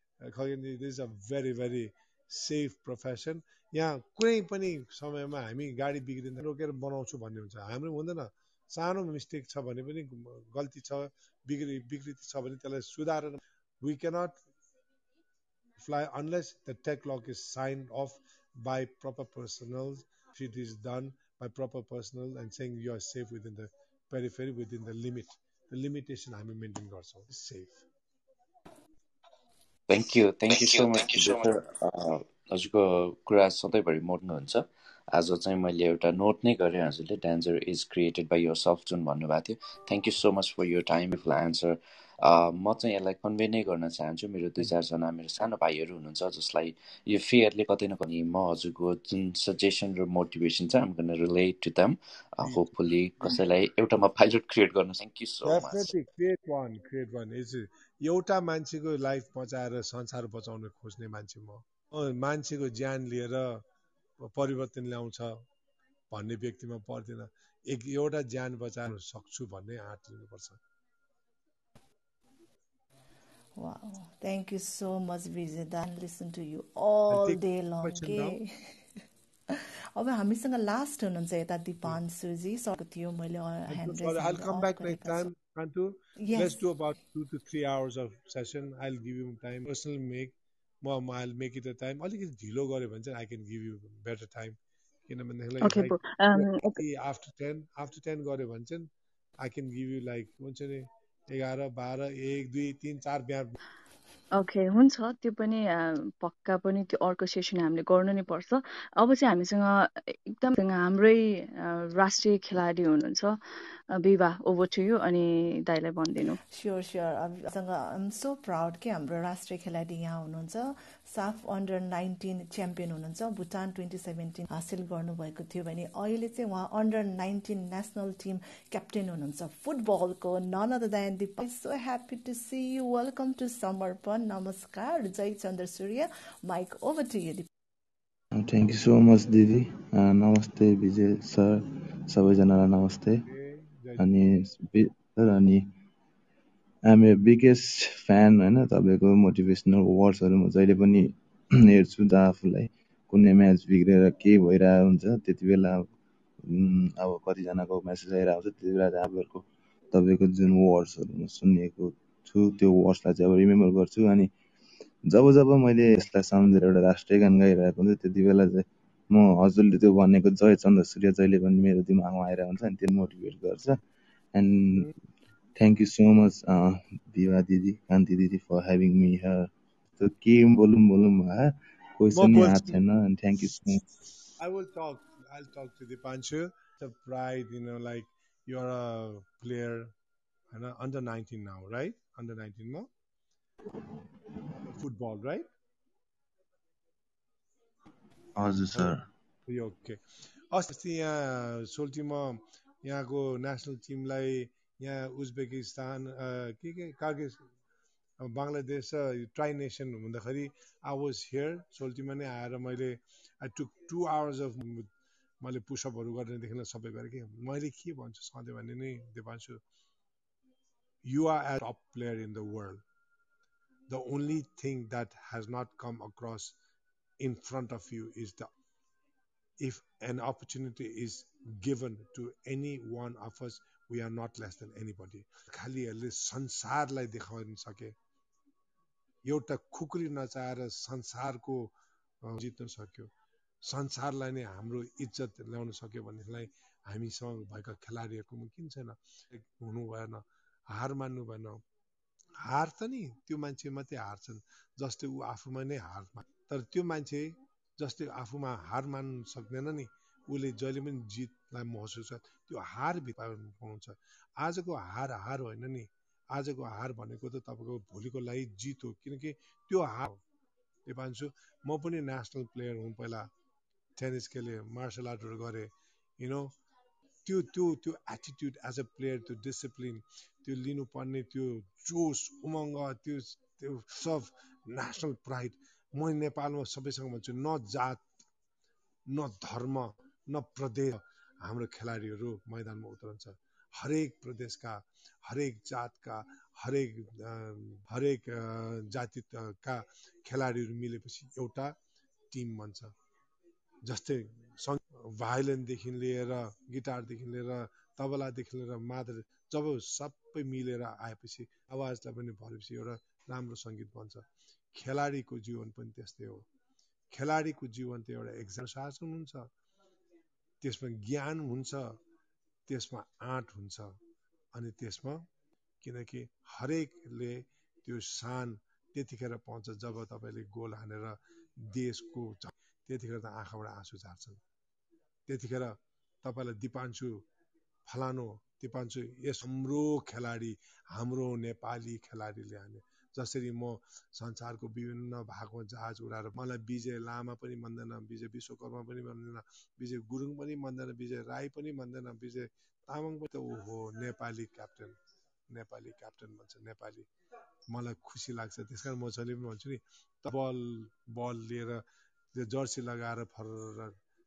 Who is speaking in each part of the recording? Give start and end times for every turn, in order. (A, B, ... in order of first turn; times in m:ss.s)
0:00.2-0:14.4 A
0:15.8-0:27.8 A
0:29.9-0:55.9 B
0:55.4-1:03.6 A
1:04.2-1:05.4 A
1:06.1-1:10.6 A
1:13.6-1:25.3 C
1:17.1-1:18.4 A
1:23.7-1:34.6 A
1:26.2-1:26.6 C
1:35.1-1:38.9 A
1:35.6-1:36.8 D
1:39.4-1:43.6 A
1:44.4-1:53.4 D
1:53.9-1:56.4 D
1:56.5-2:17.5 C
2:18.3-2:23.1 E
2:23.2-2:24.1 A
2:24.0-2:25.7 E
2:26.9-2:31.1 E
2:31.7-2:35.9 E
2:36.4-2:44.3 E
2:45.1-2:53.8 E
2:54.4-2:54.8 E
2:55.6-3:03.8 E
3:02.1-3:02.8 A
3:04.4-3:09.9 A
3:10.5-3:12.9 A
3:14.6-3:15.5 A
3:18.4-3:19.0 E
3:19.5-3:20.0 A
3:20.5-3:27.4 A
3:28.2-3:34.9 A
3:35.4-3:39.6 A
3:41.0-3:42.8 A
3:43.9-3:46.6 A
3:47.2-3:48.5 A
3:49.6-3:57.9 A
3:59.2-4:03.1 A
4:03.6-4:11.6 A
4:12.4-4:30.2 A
4:30.8-4:33.3 A
4:34.0-4:36.6 A
4:37.2-4:48.0 A
4:49.1-5:01.7 A
5:02.3-5:02.9 A
5:03.8-5:16.5 A
5:17.1-5:19.5 A
5:20.6-5:22.0 A
5:22.7-5:24.0 A
5:24.5-5:25.3 A
5:25.8-5:34.4 A
5:35.3-5:37.2 A
5:37.9-5:55.0 A
5:55.5-5:57.1 A
5:57.7-6:01.8 A
6:02.3-6:04.0 A